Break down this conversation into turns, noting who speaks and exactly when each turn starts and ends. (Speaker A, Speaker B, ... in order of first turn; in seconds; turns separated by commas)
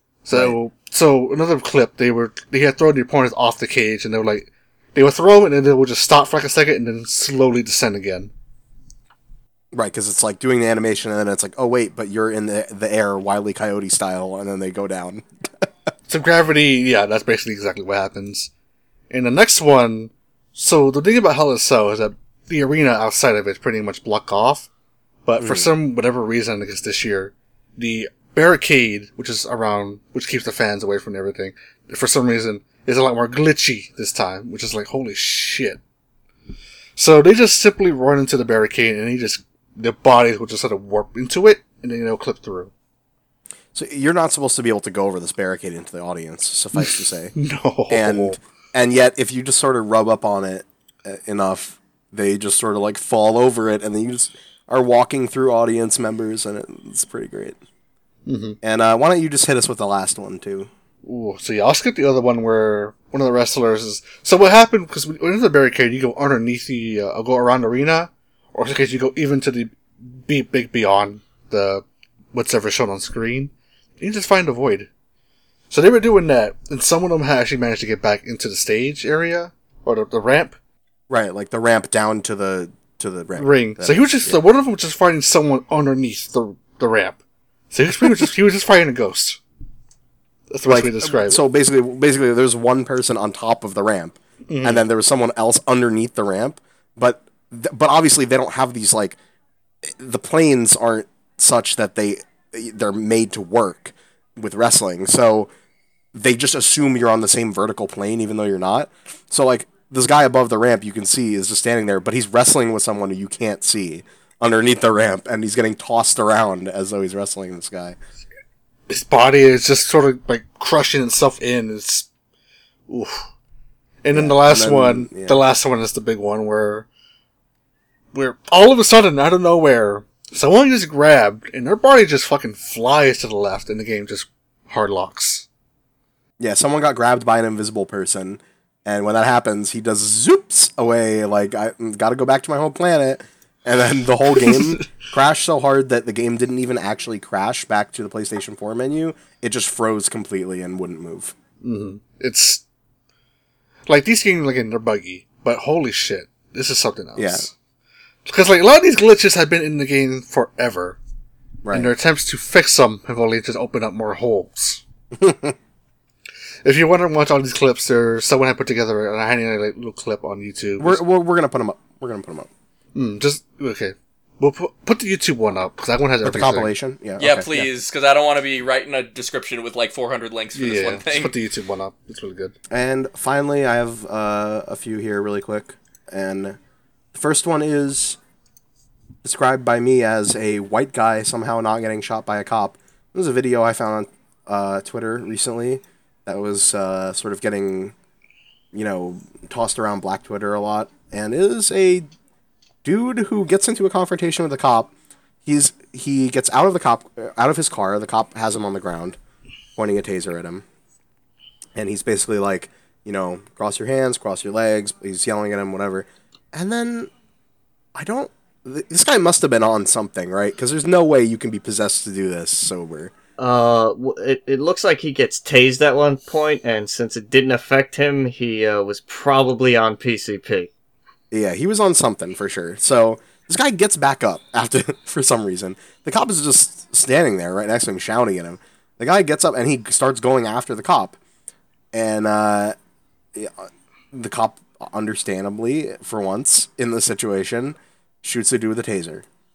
Speaker A: 0.2-8.3, Speaker B: 0.3-0.6, Speaker B: 9.7-15.7, Speaker A: 16.1-18.5, Speaker A: 19.1-24.7, Speaker A: 25.2-35.8, Speaker B: 25.4-25.7, Speaker A: 37.0-42.7, Speaker B: 43.7-47.3, Speaker A: 46.8-48.4, Speaker B: 47.9-57.6, Speaker A: 58.2-58.6, Speaker B: 58.6-60.7, Speaker A: 61.0-74.9, Speaker A: 75.7-80.6, Speaker B: 81.1-84.4, Speaker A: 83.4-87.2, Speaker A: 87.7-89.4, Speaker A: 90.5-91.4, Speaker B: 90.7-99.2, Speaker A: 94.5-94.8, Speaker B: 99.8-105.5, Speaker B: 106.1-118.0, Speaker A: 118.9-122.1, Speaker A: 122.9-123.2, Speaker A: 124.0-126.9, Speaker B: 124.1-125.4, Speaker A: 128.1-135.4, Speaker B: 136.4-151.3, Speaker A: 144.3-144.9, Speaker A: 151.6-152.6, Speaker A: 153.9-157.5, Speaker B: 157.2-157.5, Speaker A: 158.2-161.0, Speaker B: 161.6-161.9, Speaker A: 161.7-164.8, Speaker B: 165.1-165.6, Speaker A: 166.6-171.0, Speaker B: 170.8-172.5, Speaker A: 172.9-176.7, Speaker B: 176.2-177.7, Speaker C: 177.2-181.3, Speaker A: 180.6-182.6, Speaker B: 182.7-186.6, Speaker B: 187.1-188.2, Speaker B: 189.2-197.9, Speaker B: 198.7-202.1, Speaker B: 202.8-204.9, Speaker B: 205.4-209.2, Speaker B: 209.8-210.6, Speaker B: 211.7-217.1, Speaker B: 217.9-223.1, Speaker D: 223.4-230.7, Speaker B: 231.3-241.2, Speaker B: 241.9-242.7, Speaker B: 243.3-249.2